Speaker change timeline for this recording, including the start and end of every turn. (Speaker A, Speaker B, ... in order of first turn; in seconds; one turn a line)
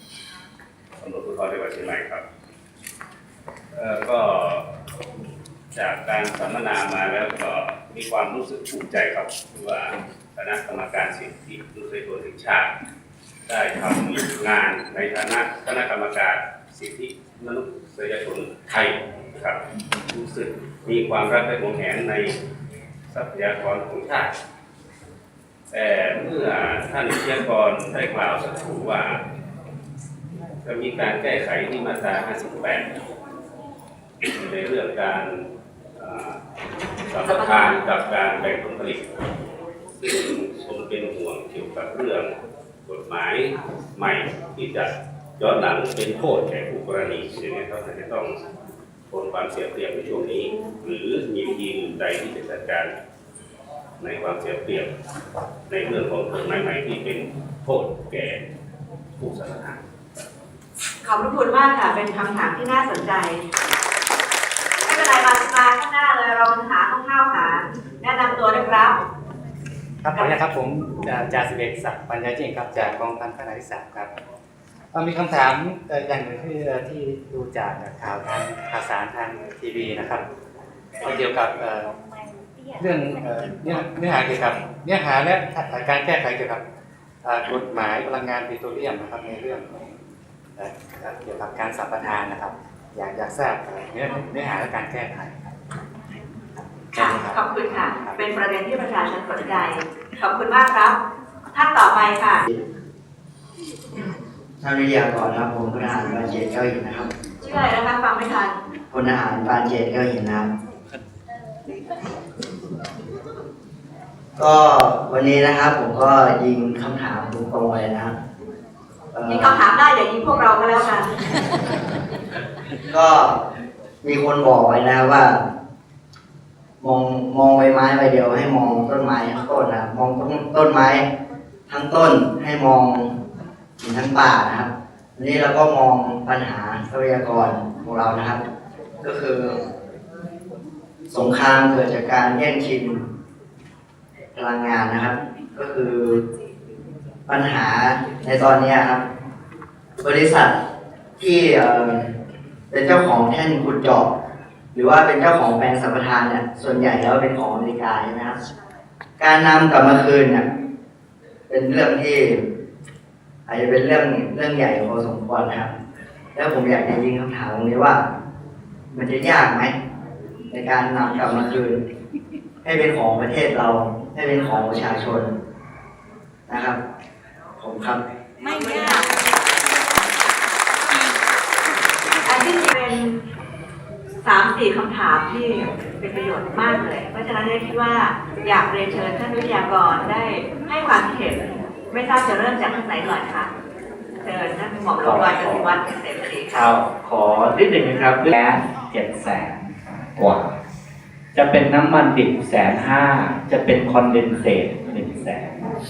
Speaker A: 1.0-2.2
Speaker A: 3.8-4.6
Speaker A: 5.8-12.7
Speaker A: 13.5-22.3
Speaker A: 23.1-24.3
Speaker A: 25.7-29.1
Speaker A: 30.6-32.9
Speaker A: 34.3-35.3
Speaker A: 36.0-36.3
Speaker A: 37.1-39.1
Speaker A: 40.0-42.3
Speaker A: 42.9-48.4
Speaker A: 49.1-52.9
Speaker A: 54.0-54.9
Speaker A: 55.7-58.4
Speaker A: 59.2-59.8
Speaker B: 61.0-63.4
Speaker B: 64.8-69.0
Speaker C: 70.0-74.1
Speaker C: 74.9-80.2
Speaker C: 81.0-82.0
Speaker C: 82.8-86.6
Speaker C: 87.2-90.0
Speaker C: 90.6-95.6
Speaker C: 96.9-98.2
Speaker B: 96.9-101.0
Speaker B: 101.5-102.5
Speaker D: 104.6-107.1
Speaker B: 107.4-108.6
Speaker D: 108.9-110.5
Speaker D: 114.4-118.1
Speaker D: 119.1-119.6
Speaker B: 119.3-121.1
Speaker D: 122.9-123.4
Speaker D: 124.0-125.4
Speaker D: 126.8-131.1
Speaker D: 131.7-133.1
Speaker D: 133.8-138.4
Speaker D: 139.0-139.6
Speaker D: 141.1-143.0
Speaker D: 144.3-146.2
Speaker D: 147.3-149.0
Speaker D: 150.0-150.6
Speaker D: 151.2-152.1
Speaker D: 152.7-154.1
Speaker D: 154.7-158.4
Speaker D: 159.2-160.4
Speaker D: 161.5-162.4
Speaker D: 163.5-165.7
Speaker D: 166.3-168.1
Speaker D: 168.9-169.8
Speaker D: 170.5-171.8
Speaker D: 172.6-175.3
Speaker D: 176.5-176.8
Speaker D: 177.6-178.0
Speaker B: 178.6-179.1
Speaker B: 182.2-183.2
Speaker B: 184.2-193.5
Speaker B: 194.2-196.6
Speaker E: 195.0-195.7
Speaker E: 196.5-200.5
Speaker E: 201.3-205.6